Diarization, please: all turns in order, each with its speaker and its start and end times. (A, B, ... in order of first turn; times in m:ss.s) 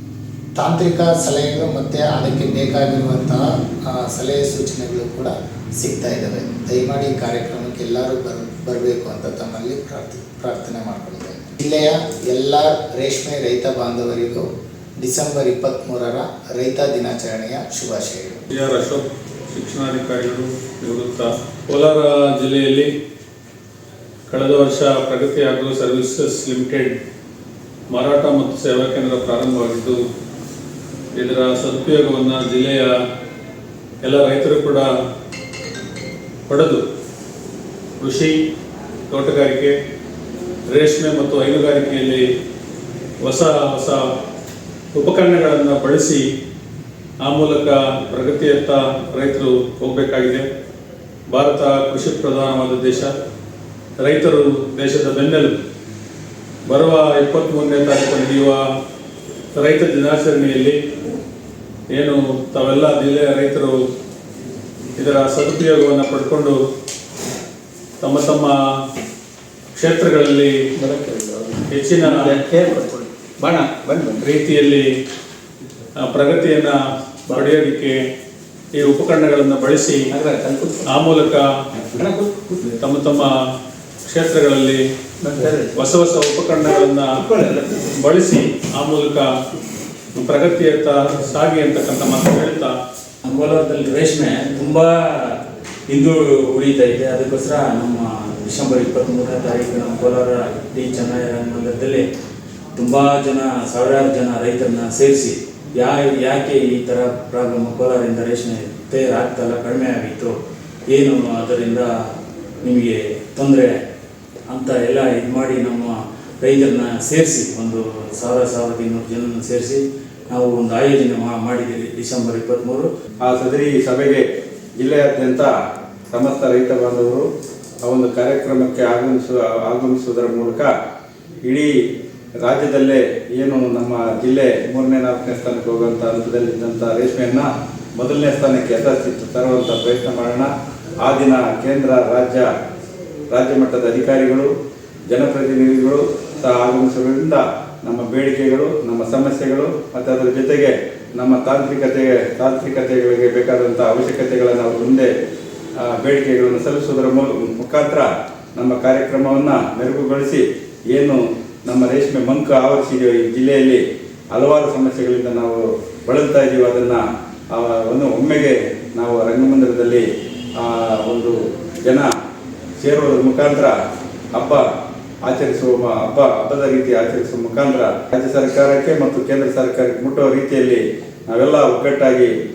0:00.6-0:14.4 A
0:15.0-0:18.4 A
0:18.5-0:22.9 B
0:24.3-0:27.0 B
0:27.9-0:30.0 B
0:31.1-0:32.9 B
0:34.0-0:34.9 B
0:36.5-0:36.8 B
0:38.0-0:38.4 B
0:39.1-0:39.7 B
0:40.7-0:42.2 B
0:43.2-0:44.0 B
0:44.9-0:46.2 B
0:47.2-0:50.5 B
0:51.3-0:53.1 B
0:54.0-0:55.6 B
0:56.7-0:58.6 B
0:59.6-1:00.8 B
1:01.9-1:03.8 B
1:05.0-1:06.6 B
1:08.0-1:08.5 B
1:09.8-1:10.6 B
1:10.8-1:14.2 C
1:11.7-1:12.4 B
1:14.2-1:14.9 B
1:16.0-1:16.8 B
1:17.3-1:18.0 B
1:18.8-1:20.1 B
1:20.1-1:20.8 C
1:20.8-1:21.4 B
1:21.9-1:22.6 C
1:22.8-1:23.3 B
1:24.0-1:24.8 B
1:25.2-1:25.7 C
1:25.7-1:27.2 B
1:27.3-1:27.8 C
1:27.9-1:29.2 B
1:30.1-1:32.7 B
1:33.2-1:35.4 D
1:35.9-1:42.1 D
1:42.8-1:50.4 D
1:50.9-1:51.9 D
1:52.6-1:53.7 D
1:54.5-2:02.9 D
2:03.2-2:04.2 E
2:04.8-2:05.5 E
2:06.1-2:07.2 E
2:07.8-2:10.7 E
2:11.4-2:11.7 E
2:12.4-2:22.5 E
2:23.3-2:24.5 E
2:25.1-2:35.1 E
2:35.8-2:47.0 E
2:47.5-2:50.0 E
2:50.6-2:52.1 E
2:52.8-2:53.7 E
2:54.3-2:54.6 E
2:55.2-3:02.3 E